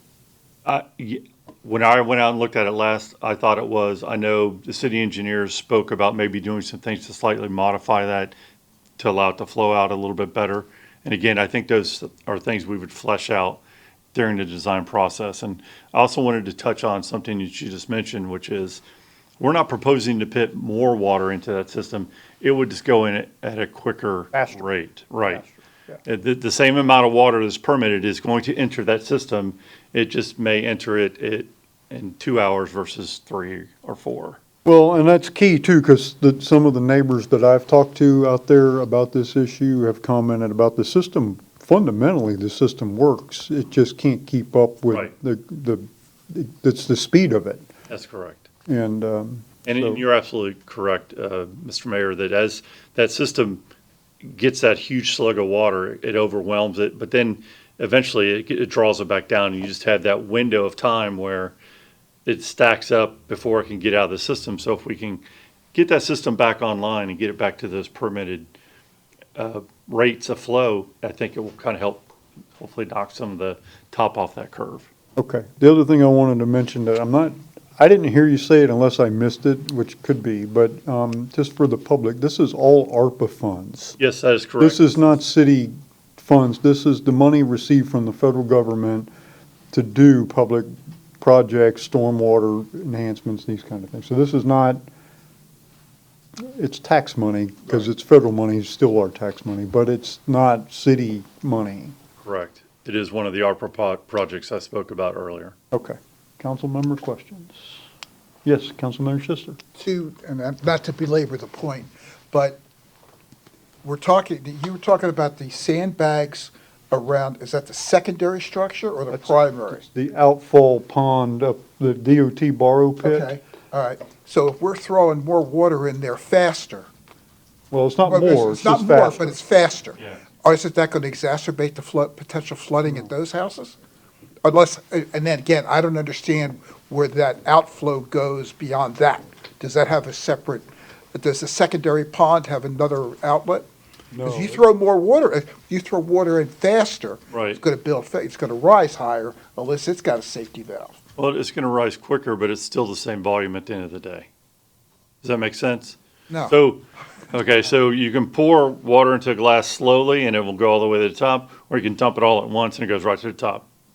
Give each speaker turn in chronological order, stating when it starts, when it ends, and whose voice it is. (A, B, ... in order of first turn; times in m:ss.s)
0:00.6-0:08.3 A
0:09.0-0:13.6 A
0:14.1-0:18.8 A
0:19.4-0:25.4 A
0:26.0-0:34.4 A
0:34.6-0:47.6 B
0:47.9-0:48.5 A
0:48.7-0:50.0 B
0:49.6-0:53.6 A
0:54.2-1:01.6 A
1:02.2-1:05.2 A
1:05.7-1:08.5 A
1:09.4-1:14.9 A
1:15.2-1:24.0 B
1:24.0-1:24.8 A
1:24.6-1:29.1 B
1:29.7-1:34.8 B
1:36.4-1:42.0 B
1:42.2-1:45.6 A
1:45.7-1:47.8 B
1:48.4-1:49.6 B
1:49.8-1:52.6 C
1:53.8-1:59.9 C
1:59.1-2:03.3 B
2:03.0-2:06.9 C
2:07.7-2:09.4 B
2:08.0-2:13.8 C
2:14.4-2:23.7 C
2:24.1-2:24.6 B
2:24.2-2:31.0 C
2:27.3-2:27.6 A
2:31.2-2:34.3 A
2:35.2-2:43.6 A
2:36.3-2:36.6 C